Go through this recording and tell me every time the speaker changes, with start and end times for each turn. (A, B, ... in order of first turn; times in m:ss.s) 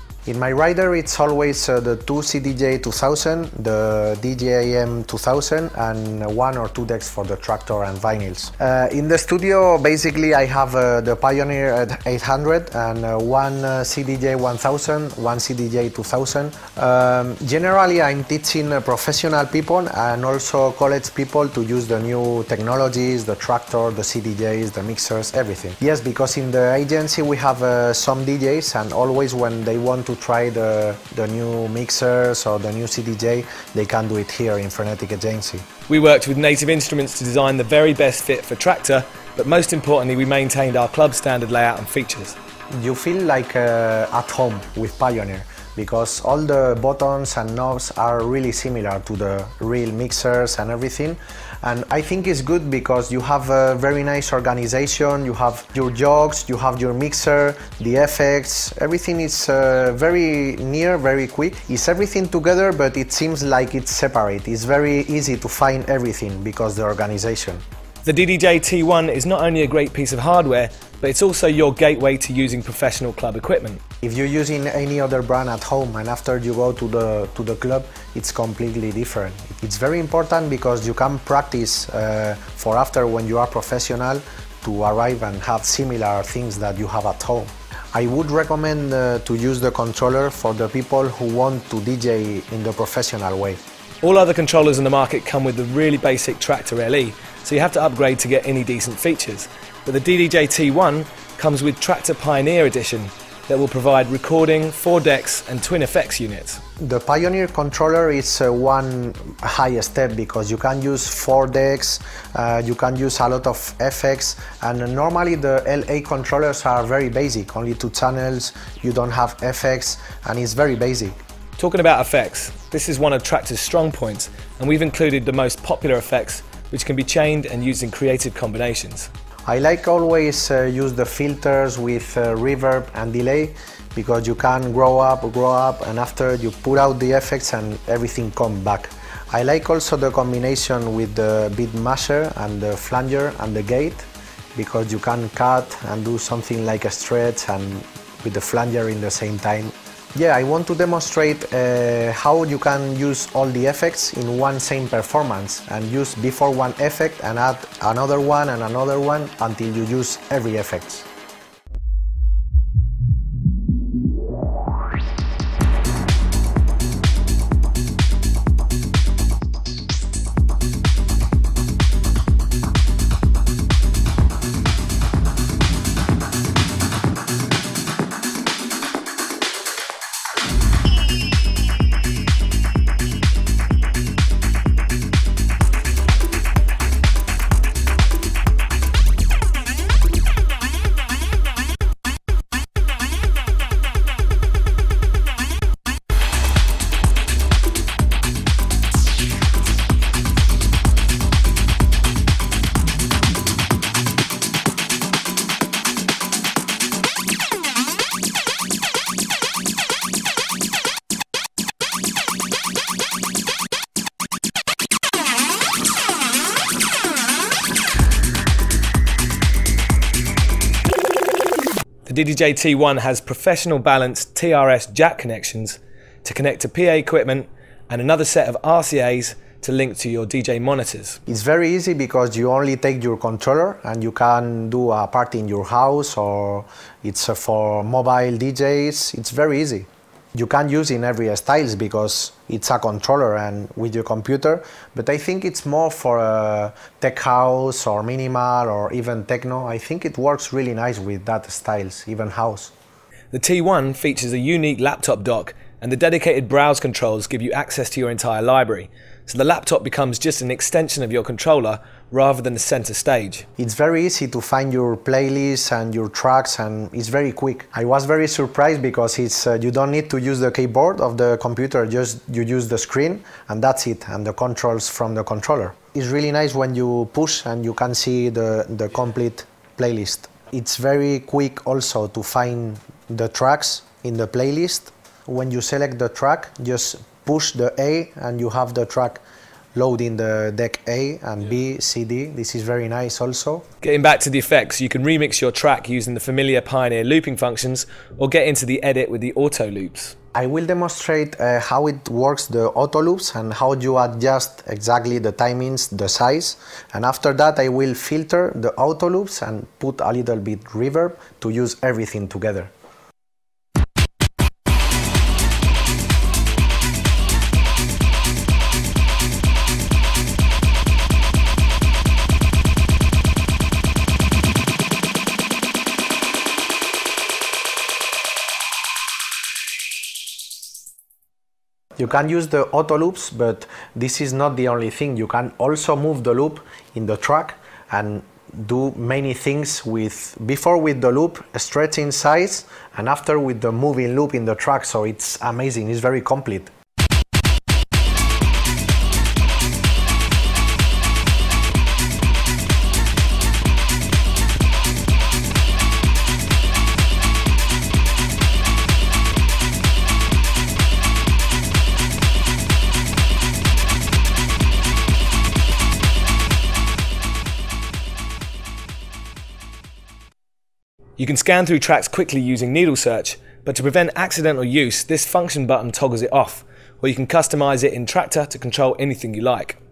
0:00.2-0:35.6 A
0:35.9-0:42.4 B
0:42.7-1:07.6 A
1:08.0-1:13.8 B
1:14.0-1:33.6 A
1:34.0-1:46.6 B
1:46.8-2:01.2 A
2:01.6-2:09.1 B
2:09.5-2:41.1 A
3:42.0-3:51.2 B
3:51.3-4:12.7 A
4:13.3-4:23.4 B
4:23.6-4:49.2 A
4:49.7-4:53.6 A
4:53.8-5:00.1 B
5:00.3-5:12.7 A
5:32.0-5:46.7 A
6:11.2-6:19.8 B